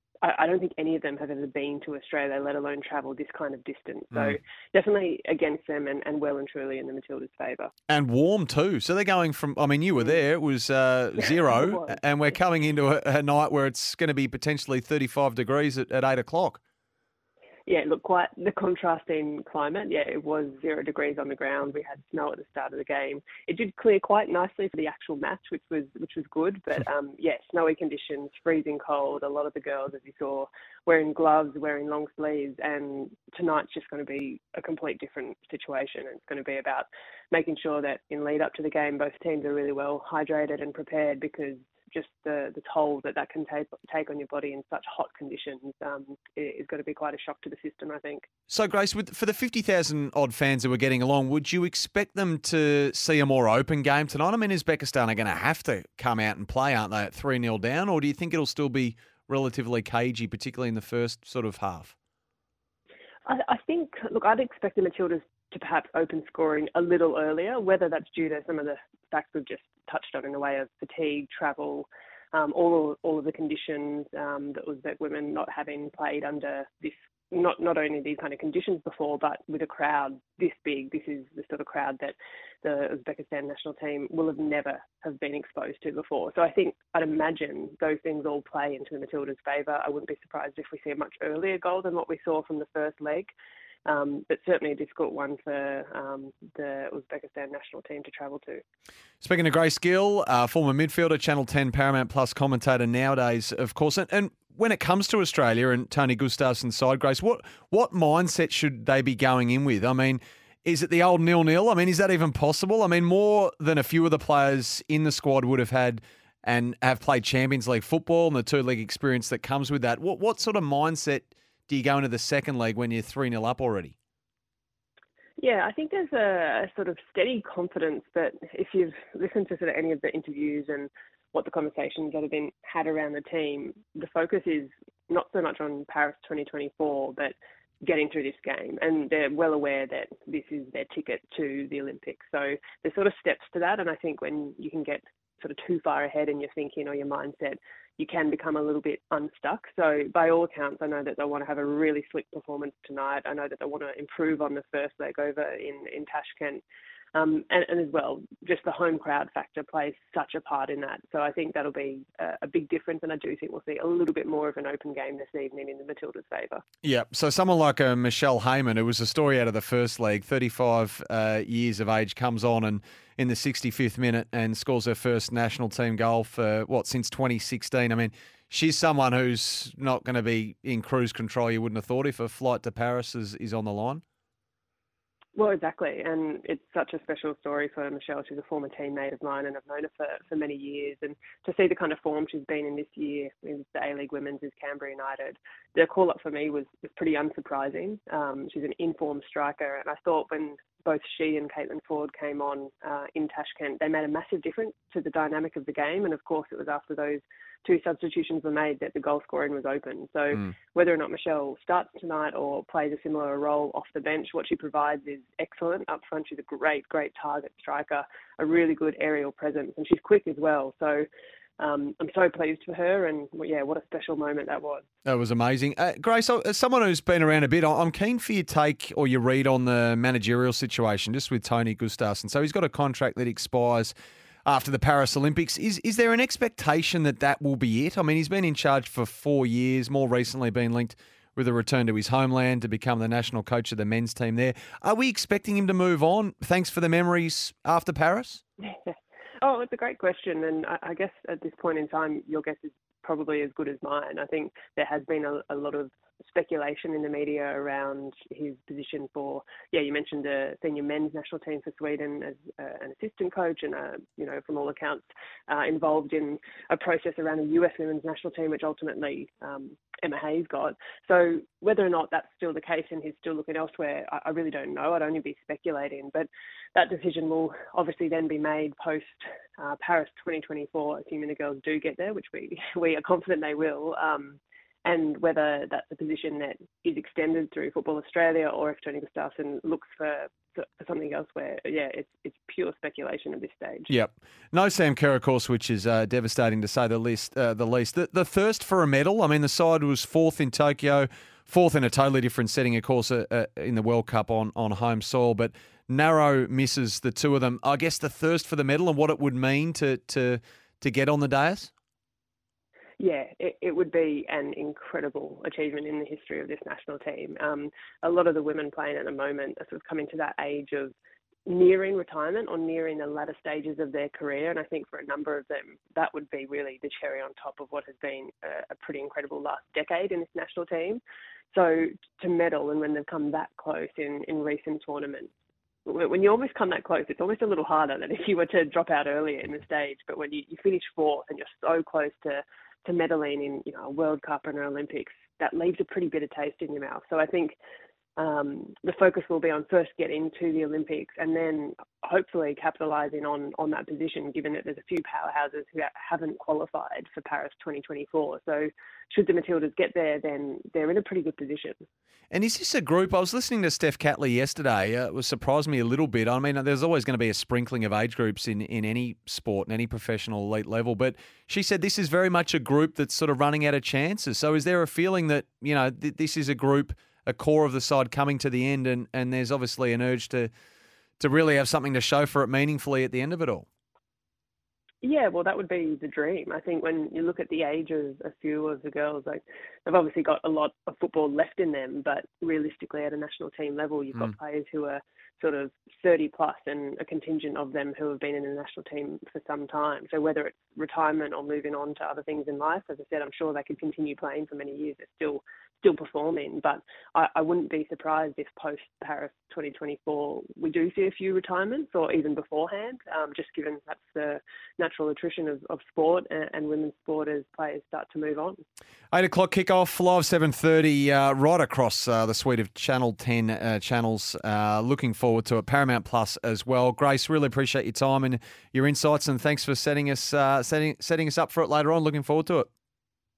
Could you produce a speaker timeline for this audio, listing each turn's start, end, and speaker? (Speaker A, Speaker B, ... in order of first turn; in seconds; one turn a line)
Speaker A: 0.2-7.7
Speaker B: 7.9-16.6
Speaker A: 11.5-11.9
Speaker A: 17.7-48.3
Speaker B: 48.5-61.9
Speaker A: 63.2-93.3
Speaker A: 93.8-98.6
Speaker B: 99.2-124.0
Speaker A: 125.4-156.6
Speaker A: 157.1-166.6
Speaker B: 166.8-184.0
Speaker A: 185.3-221.1
Speaker A: 221.6-224.8
Speaker B: 225.0-233.9
Speaker B: 234.4-248.4
Speaker A: 248.8-293.9
Speaker B: 293.9-311.7
Speaker A: 313.0-320.9
Speaker A: 321.5-331.0
Speaker A: 331.5-335.3
Speaker A: 335.9-347.6
Speaker A: 348.2-361.8
Speaker B: 362.3-380.5
Speaker B: 381.2-383.6
Speaker A: 385.0-418.6
Speaker B: 419.1-432.7